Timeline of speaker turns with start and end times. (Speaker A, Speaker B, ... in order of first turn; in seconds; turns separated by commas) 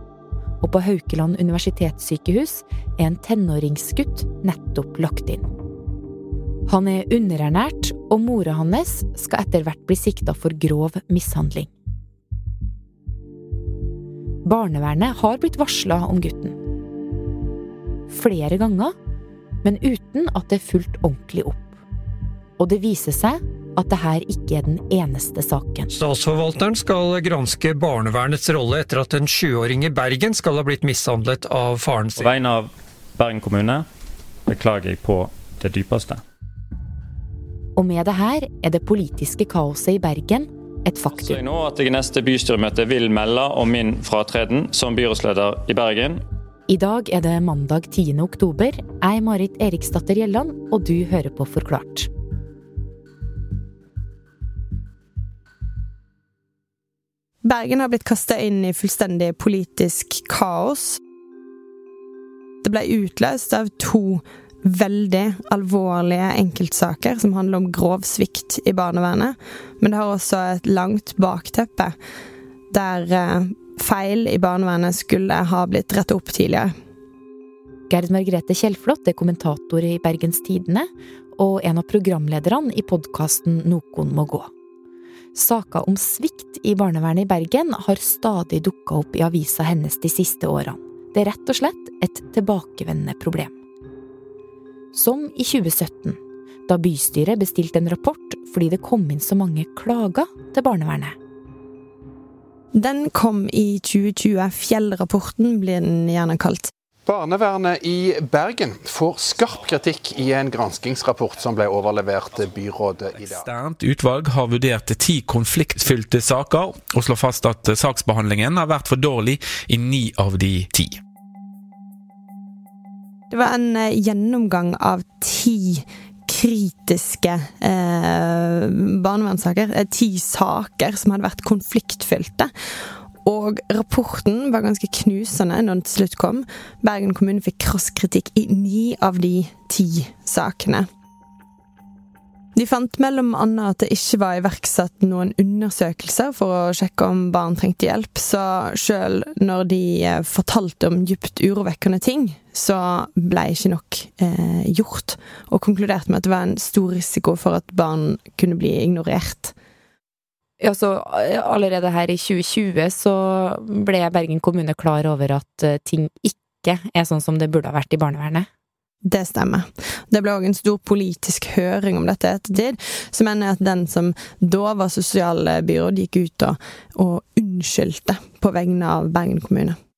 Speaker A: 0.6-5.5, Speaker A: 6.7-11.7, Speaker A: 14.5-16.6, Speaker A: 18.1-18.9, Speaker A: 19.6-21.8, Speaker A: 22.6-25.9, Speaker B: 26.1-32.2, Speaker C: 32.2-33.9, Speaker C: 34.5-36.2, Speaker A: 37.8-41.4, Speaker C: 41.2-46.2, Speaker A: 46.7-52.1, Speaker D: 57.4-61.0, Speaker D: 62.6-72.0, Speaker D: 72.7-76.7, Speaker A: 77.9-84.5, Speaker A: 85.3-93.5, Speaker A: 94.9-101.2, Speaker D: 102.8-106.7, Speaker E: 107.1-113.5, Speaker F: 113.2-121.0, Speaker D: 123.3-132.5, Speaker D: 133.2-140.9, Speaker D: 142.6-159.5, Speaker A: 160.6-168.5, Speaker D: 169.0-179.8